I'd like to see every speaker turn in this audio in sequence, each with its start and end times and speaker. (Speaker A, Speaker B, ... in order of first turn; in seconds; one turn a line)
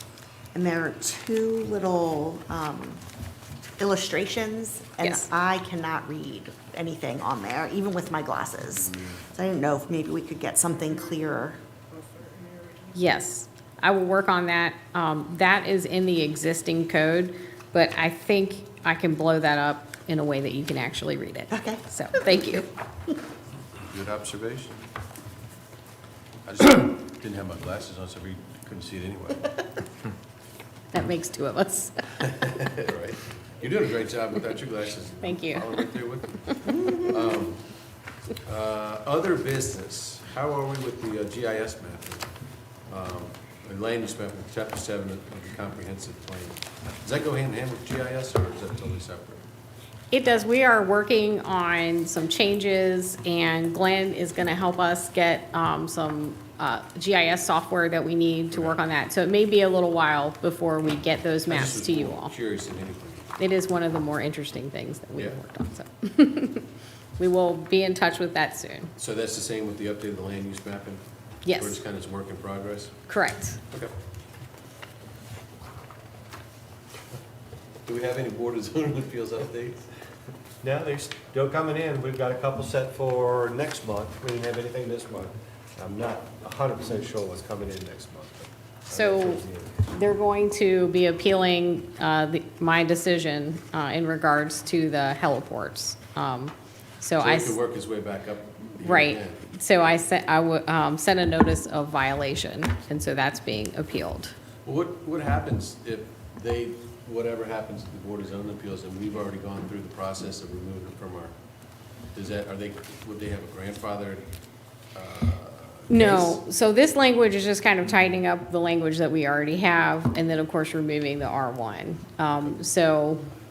Speaker A: 0.5-3.0
Speaker A: 3.8-11.6
Speaker B: 5.0-5.3
Speaker B: 12.9-22.6
Speaker A: 21.5-21.8
Speaker C: 23.8-24.8
Speaker C: 26.4-29.6
Speaker B: 30.9-31.9
Speaker C: 32.4-37.6
Speaker B: 35.2-35.7
Speaker C: 38.4-42.3
Speaker C: 42.9-49.5
Speaker B: 50.1-62.3
Speaker C: 58.5-58.8
Speaker C: 61.5-63.3
Speaker B: 63.4-68.9
Speaker C: 69.0-73.0
Speaker B: 71.4-71.8
Speaker B: 73.1-73.6
Speaker C: 77.8-79.9
Speaker D: 80.6-89.8
Speaker B: 88.9-97.6
Speaker C: 97.2-99.4
Speaker B: 98.8-104.3
Speaker C: 104.6-111.3
Speaker C: 112.1-114.2
Speaker C: 114.9-116.4
Speaker B: 115.9-123.2